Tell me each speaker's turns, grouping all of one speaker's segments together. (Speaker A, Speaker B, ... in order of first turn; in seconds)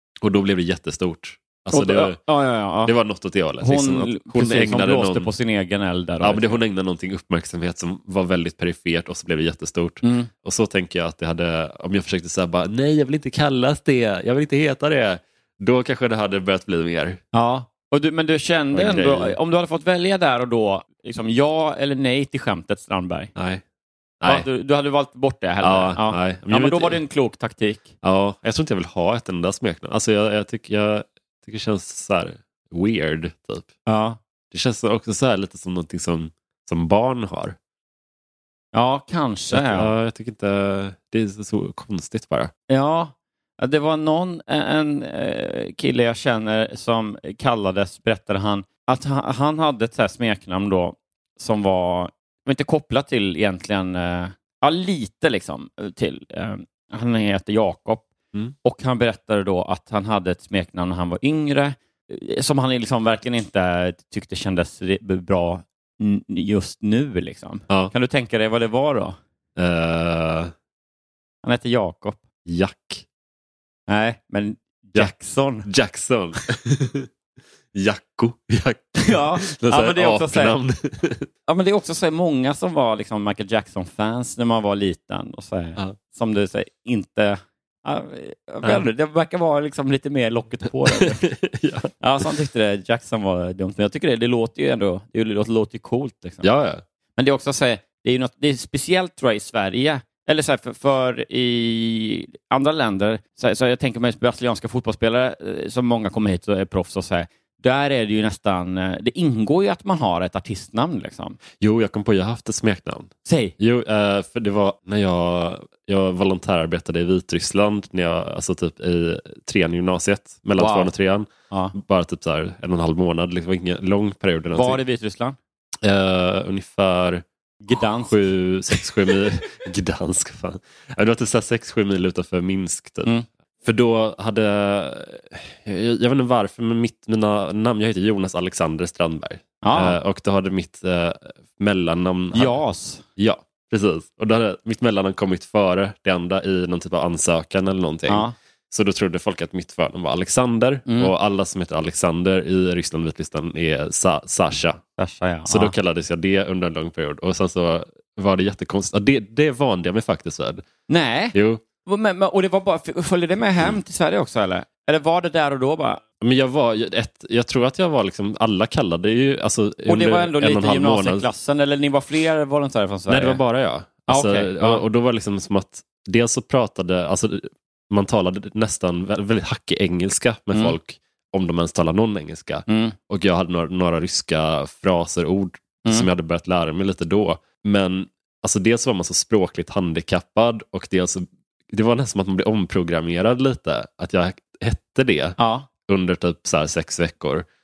Speaker A: 0.2-2.2, 2.9-5.3, 6.2-17.2, 18.7-19.4, 23.4-23.6, 24.2-24.5, 25.6-27.0, 28.0-33.7, 34.5-37.6, 39.5-42.5, 69.6-70.5, 72.5-73.0, 75.7-77.1, 77.7-81.3, 91.1-91.9, 96.4-96.8, 111.6-124.8, 125.8-142.6, 143.2-154.8, 155.5-160.6, 161.3-161.6, 166.2-171.3, 173.1-197.5
Speaker B: 1.7-2.9, 3.6-6.6, 10.0-10.3, 17.3-23.3, 24.2-27.9, 33.9-34.2, 38.7-39.9, 42.7-58.1, 58.6-69.2, 71.4-72.2, 73.9-75.7, 79.0-80.6, 81.5-91.2, 92.0-96.5, 97.2-111.4, 113.2-113.5, 120.6-120.9, 124.5-125.4, 127.6-128.1, 139.6-140.0, 142.3-143.1, 148.1-148.3, 155.0-155.8, 160.9-166.0, 169.9-173.4, 174.1-174.8, 182.7-182.9, 195.4-195.7